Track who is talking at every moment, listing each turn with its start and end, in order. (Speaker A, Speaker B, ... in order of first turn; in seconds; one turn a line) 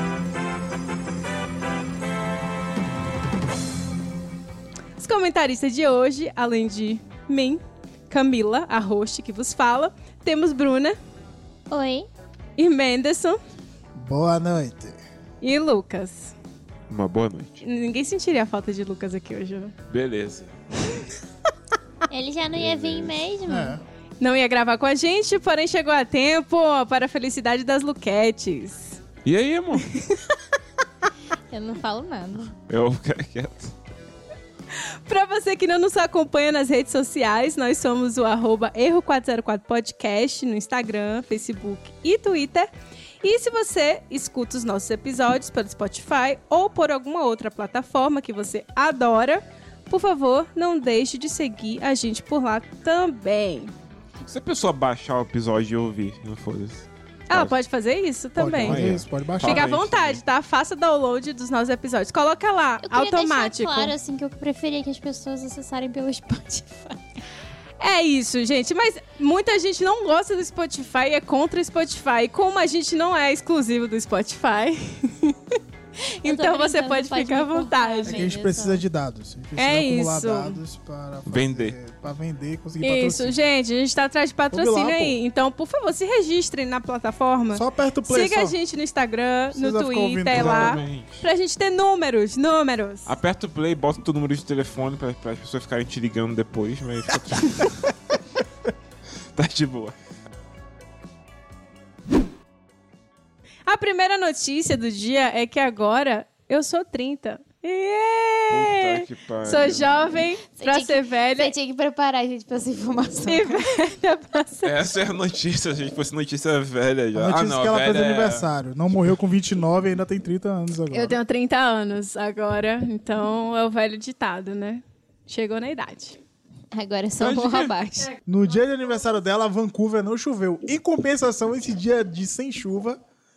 Speaker A: 5.0-11.0
Speaker B: 11.7-12.1
Speaker A: 12.6-13.4
Speaker C: 14.0-15.0
Speaker A: 15.4-16.3
Speaker D: 16.9-17.6
Speaker A: 17.6-19.7
Speaker D: 19.9-20.5
Speaker B: 22.1-23.8
Speaker D: 22.5-23.2
Speaker C: 23.5-23.8
Speaker A: 24.2-29.0
Speaker D: 29.2-29.9
Speaker A: 29.9-30.2
Speaker B: 31.5-32.5
Speaker D: 32.7-33.7
Speaker A: 34.7-42.7
Speaker A: 43.2-53.7
Speaker D: 54.2-57.5
Speaker A: 57.3-58.9
Speaker C: 58.4-59.7
Speaker D: 58.6-60.2
Speaker A: 59.4-63.9
Speaker B: 62.8-67.0
Speaker A: 67.8-75.6
Speaker A: 76.2-78.3
Speaker B: 76.2-78.8
Speaker C: 78.0-83.4
Speaker A: 79.6-80.6
Speaker D: 81.2-81.8
Speaker A: 82.8-93.2
Speaker C: 84.5-85.2
Speaker C: 87.5-88.6
Speaker C: 89.5-90.8
Speaker D: 90.3-91.2
Speaker D: 93.1-97.8
Speaker D: 99.3-99.9
Speaker A: 103.7-111.5
Speaker D: 108.5-110.0
Speaker B: 110.6-113.7
Speaker A: 113.3-114.7
Speaker D: 114.6-118.5
Speaker C: 117.1-121.2
Speaker A: 120.9-126.2
Speaker B: 126.7-128.2
Speaker D: 127.2-127.8
Speaker C: 128.2-133.0